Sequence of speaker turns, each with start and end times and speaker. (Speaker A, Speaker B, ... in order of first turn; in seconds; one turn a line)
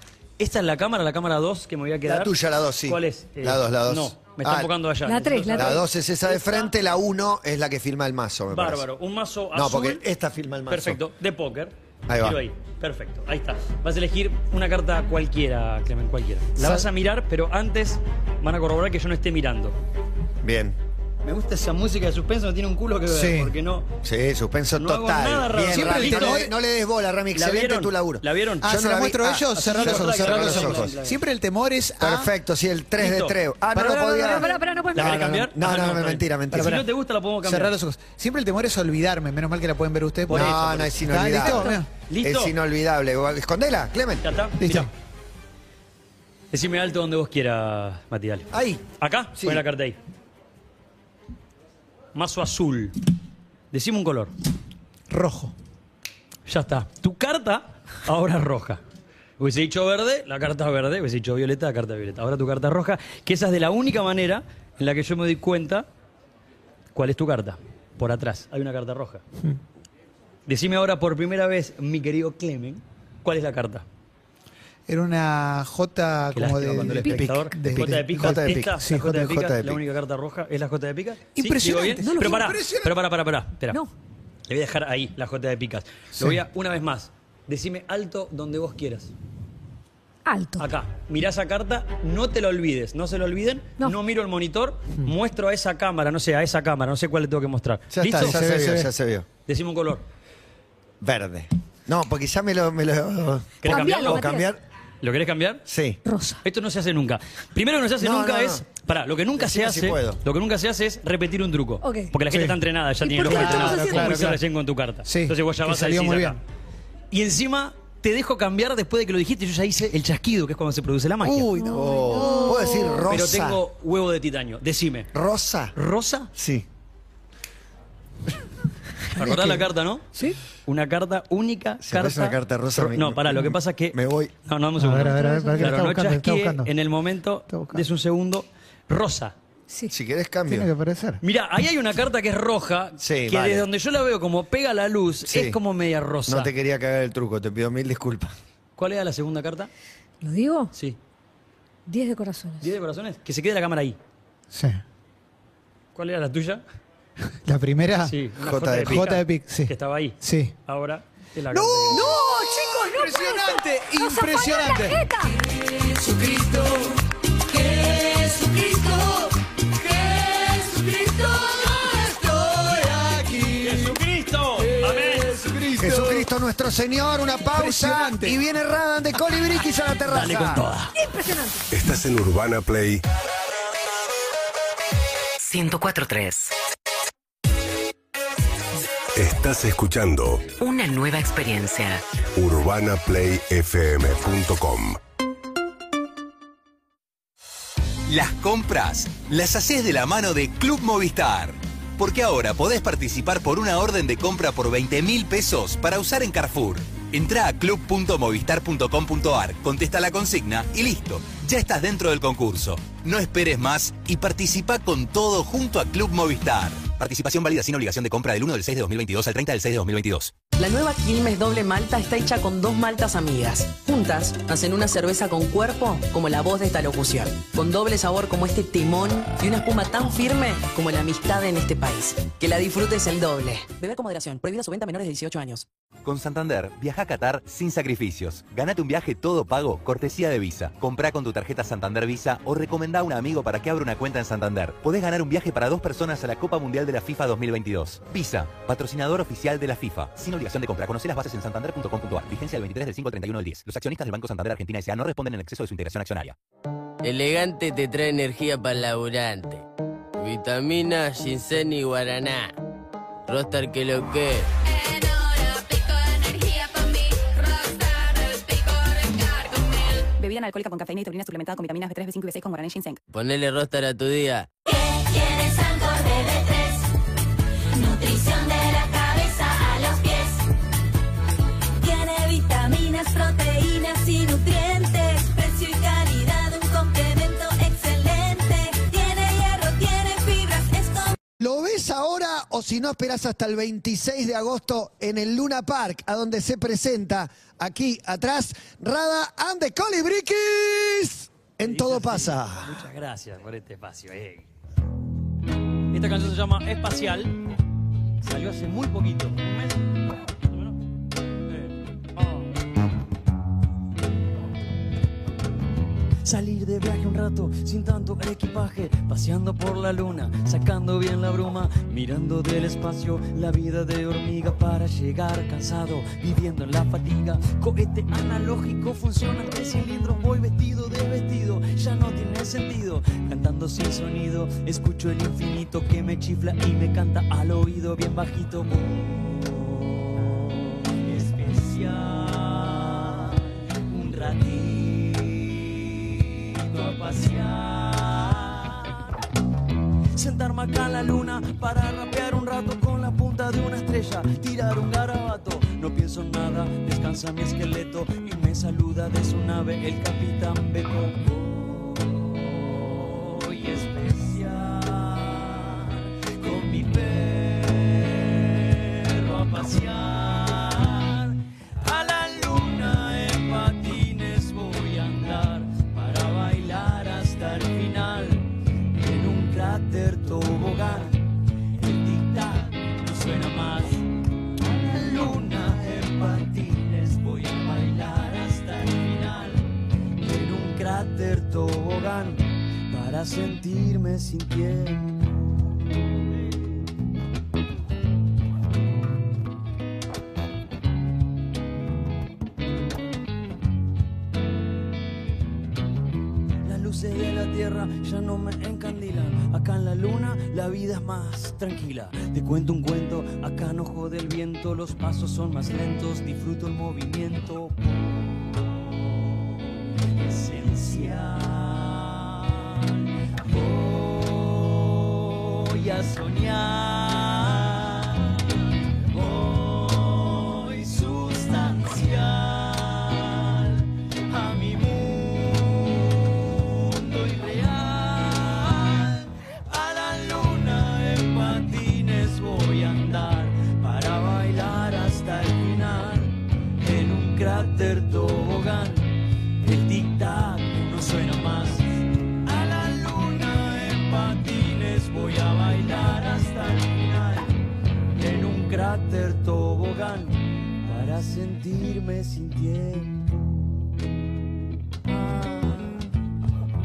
Speaker A: 0.4-2.3
Speaker B: 2.0-4.7
Speaker A: 2.8-6.7
Speaker C: 5.0-5.8
Speaker B: 5.5-8.8
Speaker A: 8.5-10.0
Speaker B: 9.5-11.0
Speaker A: 10.7-19.8
Speaker B: 12.1-12.4
Speaker B: 20.4-20.8
Speaker A: 21.2-23.9
Speaker D: 23.1-23.5
Speaker B: 24.0-30.9
Speaker A: 24.7-26.5
Speaker D: 25.7-26.5
Speaker A: 27.3-28.7
Speaker D: 28.6-32.3
Speaker A: 29.5-31.2
Speaker B: 32.0-36.8
Speaker A: 33.0-37.7
Speaker D: 33.8-34.2
Speaker C: 34.2-35.1
Speaker D: 36.5-36.8
Speaker D: 37.4-41.9
Speaker A: 40.3-41.5
Speaker B: 40.3-44.3
Speaker A: 42.1-42.5
Speaker A: 44.2-44.9
Speaker D: 44.6-44.9
Speaker A: 46.5-50.0
Speaker B: 48.5-48.8
Speaker B: 49.4-49.6
Speaker A: 52.1-53.0
Speaker A: 53.7-54.3
Speaker D: 55.1-55.5
Speaker A: 56.5-58.8
Speaker A: 59.4-65.9
Speaker A: 66.9-69.2
Speaker A: 70.5-73.8
Speaker D: 74.9-79.2
Speaker A: 76.3-83.8
Speaker B: 77.1-79.8
Speaker D: 81.4-82.9
Speaker C: 82.1-82.5
Speaker A: 84.5-89.1
Speaker C: 90.2-90.7
Speaker A: 90.6-98.4
Speaker B: 97.9-99.2
Speaker D: 98.2-98.9
Speaker A: 99.5-100.0
Speaker B: 101.0-104.6
Speaker A: 103.6-104.3
Speaker C: 103.6-104.5
Speaker A: 105.0-105.6
Speaker B: 105.7-106.0
Speaker C: 106.0-106.4
Speaker A: 106.4-116.4
Speaker B: 108.0-108.6
Speaker B: 109.4-110.2
Speaker C: 111.8-112.1
Speaker D: 112.3-112.6
Speaker C: 113.0-114.2
Speaker D: 113.2-114.4
Speaker D: 115.0-116.4
Speaker A: 117.1-121.5
Speaker D: 121.2-122.6
Speaker C: 121.5-123.0
Speaker B: 121.6-123.6
Speaker A: 123.1-125.1
Speaker B: 125.1-125.7
Speaker A: 125.7-126.3
Speaker B: 126.3-126.7
Speaker A: 129.1-130.1
Speaker B: 129.3-129.5
Speaker A: 130.7-139.3
Speaker B: 131.8-134.3
Speaker D: 134.8-136.7
Speaker C: 135.1-135.6
Speaker D: 137.5-137.8
Speaker B: 139.9-140.7
Speaker D: 140.5-141.2
Speaker A: 141.2-146.5
Speaker B: 143.0-143.7
Speaker B: 145.3-145.6
Speaker B: 146.3-148.3
Speaker A: 148.8-149.7
Speaker C: 150.2-150.7
Speaker C: 151.9-152.7
Speaker A: 152.6-154.0
Speaker D: 154.5-154.8
Speaker A: 155.9-156.6
Speaker D: 157.4-158.2
Speaker A: 158.1-162.2
Speaker B: 158.4-159.1
Speaker D: 158.8-160.5
Speaker D: 161.5-165.0
Speaker C: 161.9-165.3
Speaker D: 165.9-166.9
Speaker D: 167.5-169.2
Speaker D: 170.1-174.0
Speaker A: 173.5-175.4
Speaker D: 174.7-176.3
Speaker B: 175.8-180.6
Speaker D: 177.5-178.4
Speaker A: 180.1-180.9
Speaker C: 181.0-181.6
Speaker E: 181.7-183.0
Speaker F: 185.4-186.5
Speaker E: 189.1-190.5
Speaker F: 190.6-192.0
Speaker E: 192.3-195.0
Speaker G: 198.1-220.3
Speaker H: 220.6-235.6
Speaker G: 236.0-256.3
Speaker I: 257.0-259.6
Speaker I: 260.2-262.5
Speaker I: 263.3-264.5
Speaker J: 264.6-270.1
Speaker K: 270.2-273.0
Speaker I: 273.1-274.5
Speaker J: 274.6-276.9
Speaker J: 277.7-280.4
Speaker J: 281.8-291.1
Speaker B: 291.4-302.8
Speaker A: 301.6-304.5
Speaker A: 305.9-307.4
Speaker A: 308.2-309.9
Speaker A: 310.4-310.8
Speaker A: 311.5-312.4
Speaker A: 316.2-349.1
Speaker A: 350.1-381.2
Speaker A: 381.8-395.4
Speaker A: 406.6-418.2
Speaker A: 420.1-457.6
Speaker A: 458.1-463.5
Speaker A: 465.0-466.1